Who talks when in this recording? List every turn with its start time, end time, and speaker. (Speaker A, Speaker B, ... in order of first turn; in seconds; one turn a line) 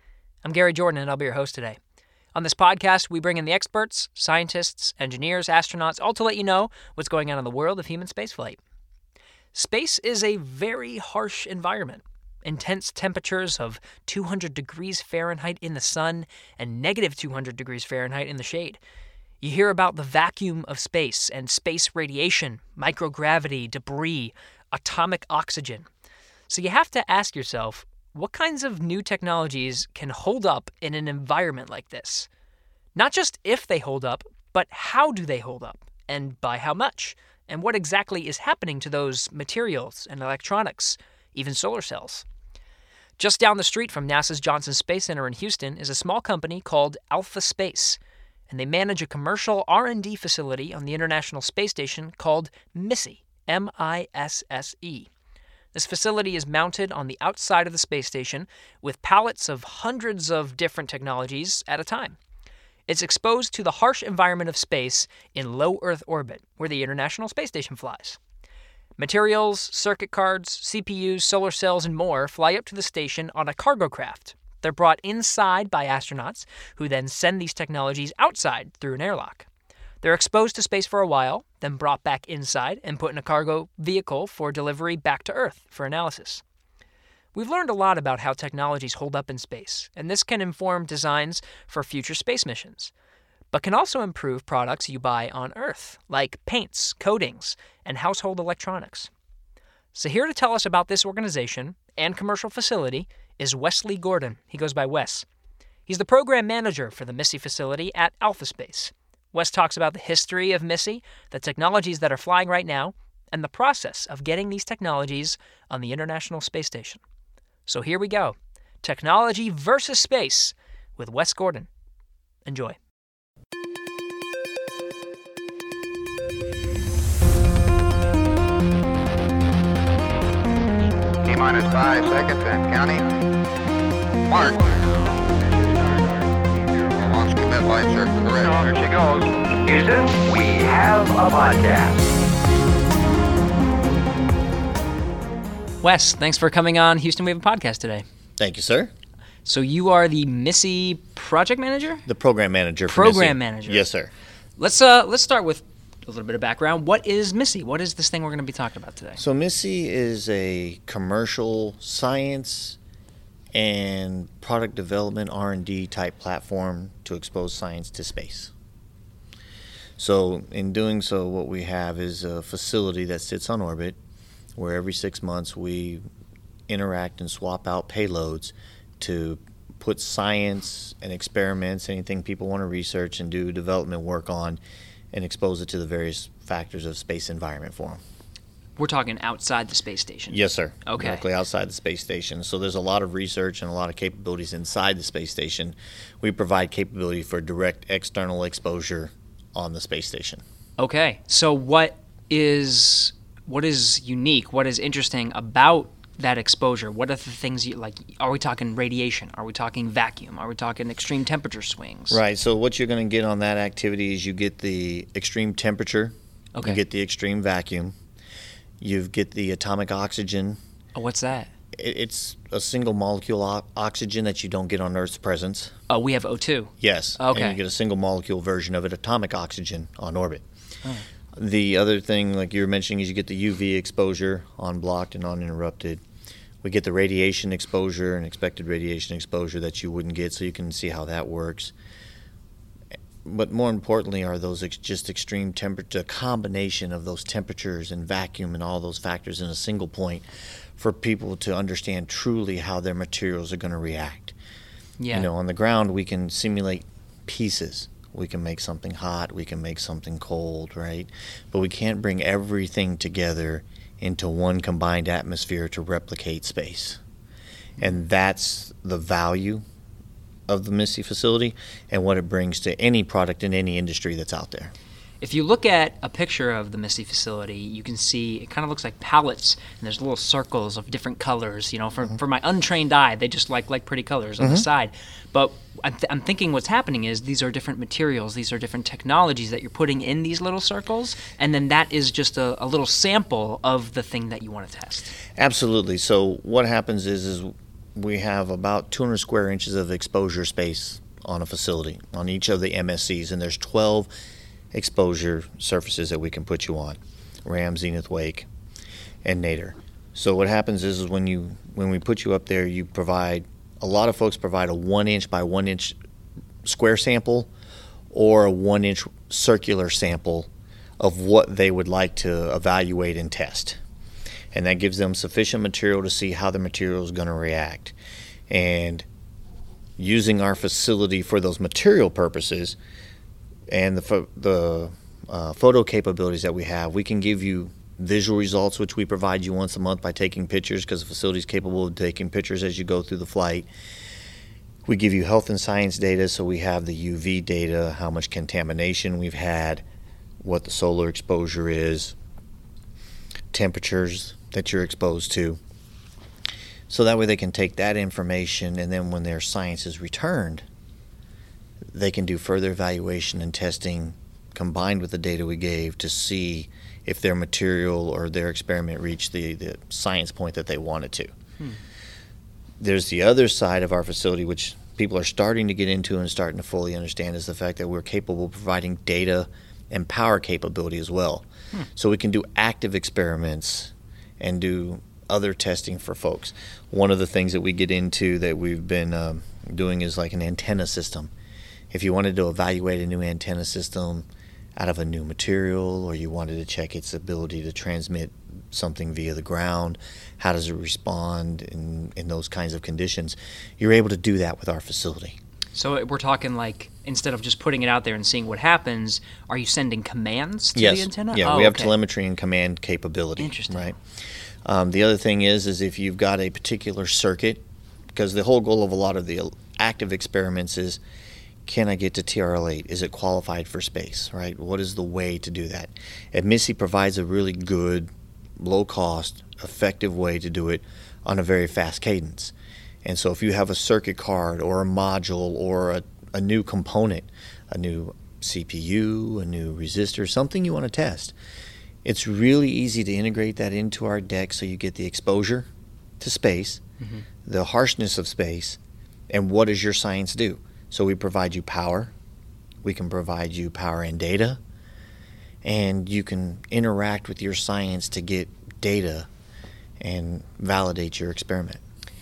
Speaker A: 0.4-1.8
Speaker A: 2.4-8.6
Speaker A: 9.5-18.8
Speaker A: 19.4-25.9
Speaker A: 26.5-32.3
Speaker A: 33.0-42.2
Speaker A: 43.2-55.1
Speaker A: 55.7-62.2
Speaker A: 62.9-68.2
Speaker A: 69.0-79.5
Speaker A: 80.0-86.4
Speaker A: 87.3-92.9
Speaker A: 93.5-99.1
Speaker A: 100.0-105.3
Speaker A: 105.9-117.0
Speaker A: 117.7-121.7
Speaker A: 122.5-122.8
Speaker B: 131.2-133.1
Speaker B: 134.3-135.1
Speaker B: 136.9-139.3
Speaker C: 139.7-142.1
Speaker A: 145.8-148.1
Speaker D: 148.4-148.9
Speaker A: 149.4-152.1
Speaker D: 152.1-154.1
Speaker A: 152.9-153.9
Speaker A: 154.6-159.2
Speaker D: 159.2-162.8
Speaker D: 163.5-168.5
Speaker D: 170.0-174.0
Speaker D: 174.6-176.0
Speaker D: 176.7-184.6
Speaker D: 185.1-188.0
Speaker A: 188.8-191.2
Speaker D: 190.3-200.4
Speaker A: 200.8-212.2
Speaker D: 212.1-217.9
Speaker A: 216.6-216.8
Speaker D: 218.8-220.6
Speaker A: 220.9-221.5
Speaker D: 221.7-225.7
Speaker A: 225.9-227.6
Speaker D: 226.8-230.4
Speaker D: 231.3-236.0
Speaker D: 236.6-241.7
Speaker D: 243.2-254.3
Speaker A: 255.0-255.3
Speaker D: 255.1-267.0
Speaker D: 267.8-269.6
Speaker D: 270.5-274.7
Speaker A: 275.2-295.1
Speaker D: 284.4-284.6
Speaker D: 295.4-304.1
Speaker D: 304.7-308.5
Speaker D: 309.2-316.0
Speaker D: 316.6-317.5
Speaker D: 318.1-323.8
Speaker D: 324.5-327.9
Speaker D: 328.5-329.1
Speaker D: 330.0-332.8
Speaker D: 333.7-343.7
Speaker D: 344.9-349.9
Speaker D: 350.4-352.2
Speaker D: 353.5-355.6
Speaker D: 356.9-360.6
Speaker D: 361.9-371.3
Speaker D: 372.8-391.3
Speaker D: 391.9-405.4
Speaker A: 405.8-411.9
Speaker D: 410.8-414.0
Speaker A: 413.4-413.9
Speaker D: 414.6-421.0
Speaker D: 421.7-441.4
Speaker D: 442.0-445.7
Speaker D: 446.2-446.8
Speaker A: 447.0-447.2
Speaker D: 447.4-448.8
Speaker D: 449.3-452.1
Speaker D: 452.8-454.6
Speaker D: 455.6-459.3
Speaker D: 460.0-461.8